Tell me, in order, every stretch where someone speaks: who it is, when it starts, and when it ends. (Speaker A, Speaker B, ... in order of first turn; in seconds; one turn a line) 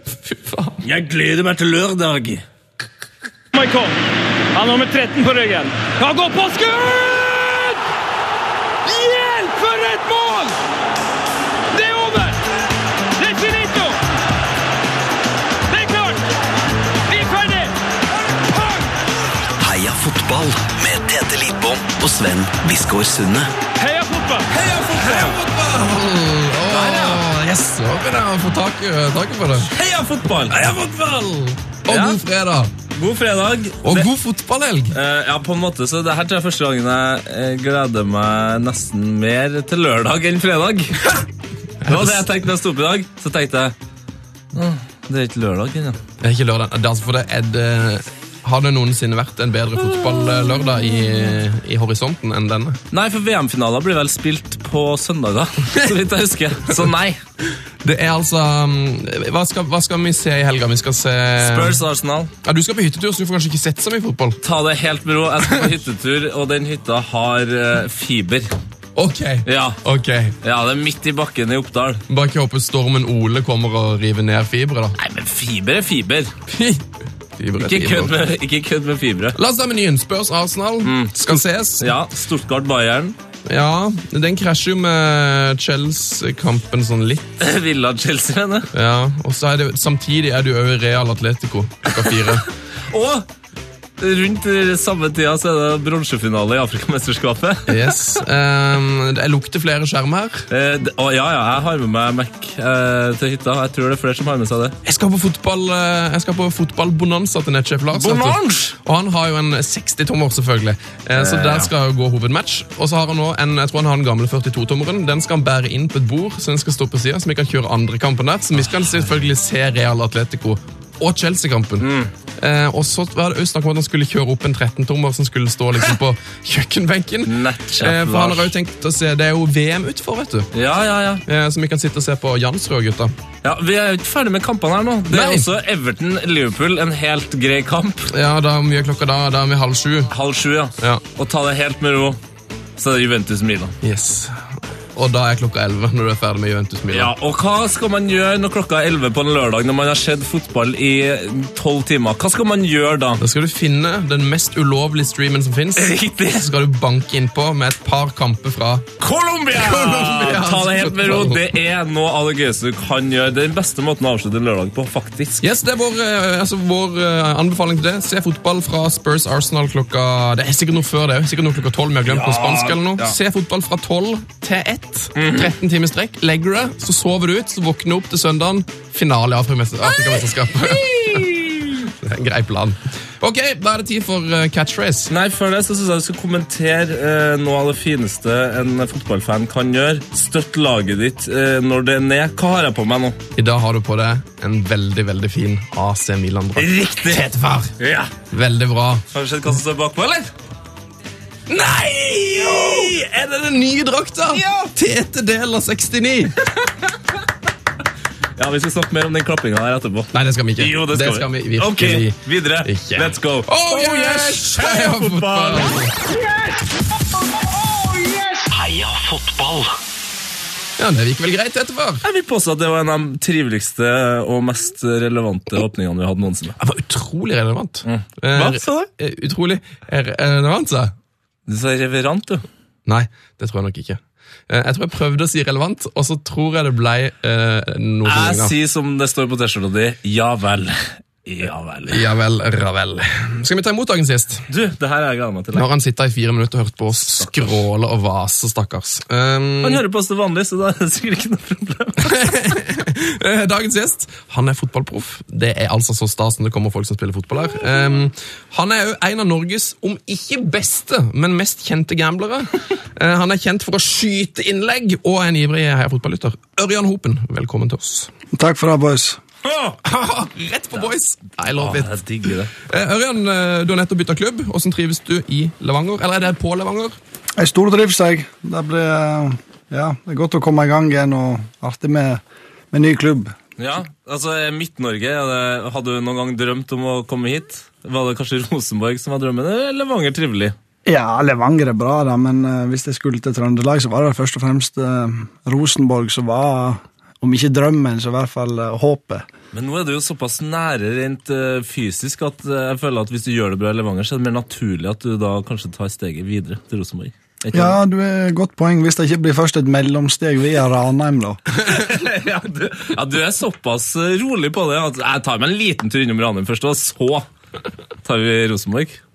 Speaker A: 0.2-0.8
Speaker B: 0.8-2.4
Speaker C: 3.5-4.0
Speaker C: 4.5-7.7
Speaker C: 8.8-10.5
Speaker C: 11.7-12.4
Speaker C: 13.2-14.0
Speaker C: 15.7-16.2
Speaker C: 17.1-17.7
Speaker C: 18.3-18.9
Speaker D: 19.6-23.5
Speaker C: 23.8-24.5
Speaker B: 24.5-25.4
Speaker A: 24.7-29.7
Speaker B: 26.6-27.3
Speaker B: 29.6-30.7
Speaker A: 30.5-32.7
Speaker B: 31.9-32.2
Speaker B: 32.9-34.1
Speaker A: 33.8-34.9
Speaker B: 34.9-41.1
Speaker A: 41.9-42.2
Speaker B: 41.9-43.7
Speaker B: 44.5-46.0
Speaker A: 46.2-52.8
Speaker B: 52.9-57.2
Speaker A: 57.8-61.8
Speaker B: 61.4-62.3
Speaker A: 62.4-64.4
Speaker B: 64.4-68.5
Speaker A: 69.0-70.3
Speaker B: 69.4-69.8
Speaker B: 70.4-72.0
Speaker A: 72.1-74.9
Speaker B: 75.0-76.3
Speaker A: 76.5-76.8
Speaker A: 77.4-78.2
Speaker B: 77.6-79.4
Speaker A: 79.3-81.9
Speaker B: 80.8-83.2
Speaker A: 83.5-87.3
Speaker B: 87.4-88.7
Speaker A: 88.7-92.5
Speaker B: 91.9-92.2
Speaker B: 92.9-93.3
Speaker B: 94.0-97.9
Speaker A: 97.7-100.5
Speaker B: 100.5-104.8
Speaker A: 104.8-121.9
Speaker B: 107.9-108.8
Speaker B: 111.2-111.7
Speaker B: 121.8-122.1
Speaker A: 122.4-130.5
Speaker B: 127.2-128.5
Speaker B: 130.5-131.2
Speaker A: 131.2-133.1
Speaker B: 133.4-138.1
Speaker A: 135.1-135.5
Speaker A: 138.1-140.1
Speaker B: 140.1-142.2
Speaker B: 142.8-143.7
Speaker A: 143.8-144.4
Speaker A: 144.9-147.1
Speaker B: 146.9-153.2
Speaker A: 153.2-158.8
Speaker B: 155.8-156.5
Speaker B: 159.0-165.4
Speaker A: 159.5-161.5
Speaker A: 165.4-181.3
Speaker B: 172.1-173.2
Speaker B: 175.2-175.5
Speaker B: 179.9-181.6
Speaker A: 181.8-185.1
Speaker B: 185.1-193.2
Speaker A: 193.3-197.7
Speaker B: 196.6-198.1
Speaker A: 198.3-199.0
Speaker B: 199.1-200.3
Speaker A: 201.5-206.4
Speaker B: 202.4-202.9
Speaker B: 204.3-204.7
Speaker B: 208.4-215.9
Speaker A: 210.1-215.9
Speaker C: 216.2-216.6
Speaker C: 217.6-218.4
Speaker D: 218.5-219.7
Speaker A: 220.8-222.0
Speaker B: 222.0-226.6
Speaker A: 226.6-230.9
Speaker B: 227.8-228.9
Speaker B: 231.5-232.4
Speaker A: 232.8-238.5
Speaker B: 238.0-242.1
Speaker A: 241.9-244.4
Speaker B: 244.5-245.7
Speaker A: 245.5-249.8
Speaker B: 247.2-247.6
Speaker B: 249.6-252.1
Speaker A: 252.0-268.1
Speaker E: 268.3-269.2
Speaker B: 269.4-269.8
Speaker A: 269.8-272.0
Speaker B: 271.6-272.5
Speaker A: 272.5-277.0
Speaker E: 277.4-283.3
Speaker B: 283.6-290.5
Speaker E: 290.9-299.3
Speaker B: 299.5-307.8
Speaker E: 307.5-311.4
Speaker B: 311.6-317.3
Speaker B: 318.0-319.0